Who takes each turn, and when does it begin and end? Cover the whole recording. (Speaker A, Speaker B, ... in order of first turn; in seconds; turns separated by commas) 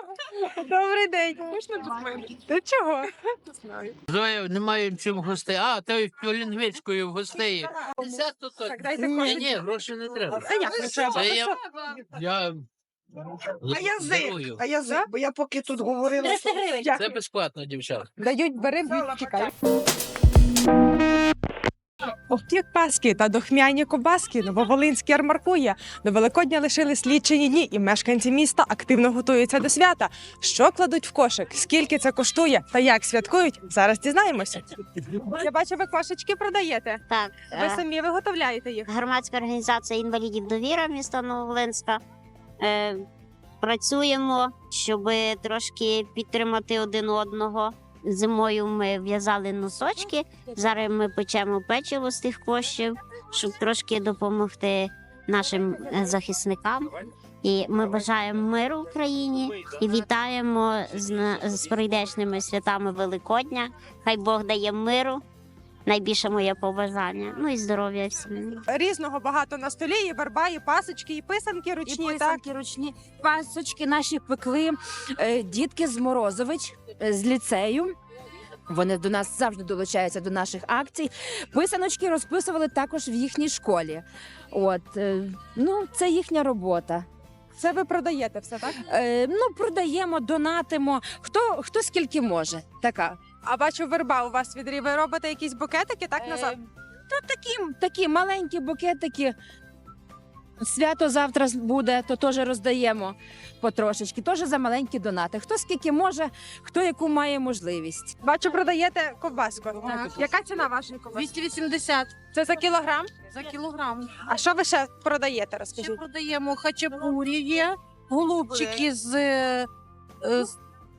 Speaker A: 0.3-3.9, Speaker B: 4.1-12.6, Speaker A: 8.6-9.5, Speaker C: 9.0-9.3, Speaker A: 10.3-11.5, Speaker B: 13.6-14.6, Speaker C: 13.7-16.6, Speaker A: 16.6-17.0, Speaker B: 16.9-18.1, Speaker A: 18.2-19.5, Speaker A: 22.3-34.7, Speaker A: 35.2-37.0, Speaker D: 37.1-37.8, Speaker A: 37.5-38.9, Speaker D: 38.9-42.0, Speaker D: 42.6-43.0, Speaker D: 43.6-56.9, Speaker D: 57.4-65.2, Speaker D: 65.8-68.6, Speaker A: 68.7-72.4, Speaker E: 71.8-77.9, Speaker E: 78.7-87.1, Speaker A: 87.6-88.8, Speaker E: 88.8-93.2, Speaker A: 93.4-96.6, Speaker E: 96.2-96.5, Speaker E: 97.1-99.3, Speaker E: 100.6-108.1, Speaker A: 108.2-111.3, Speaker F: 109.9-110.2, Speaker F: 111.1-112.1, Speaker A: 112.3-113.1, Speaker F: 113.3-114.1, Speaker A: 114.2-116.0, Speaker F: 115.7-119.7, Speaker F: 120.2-120.5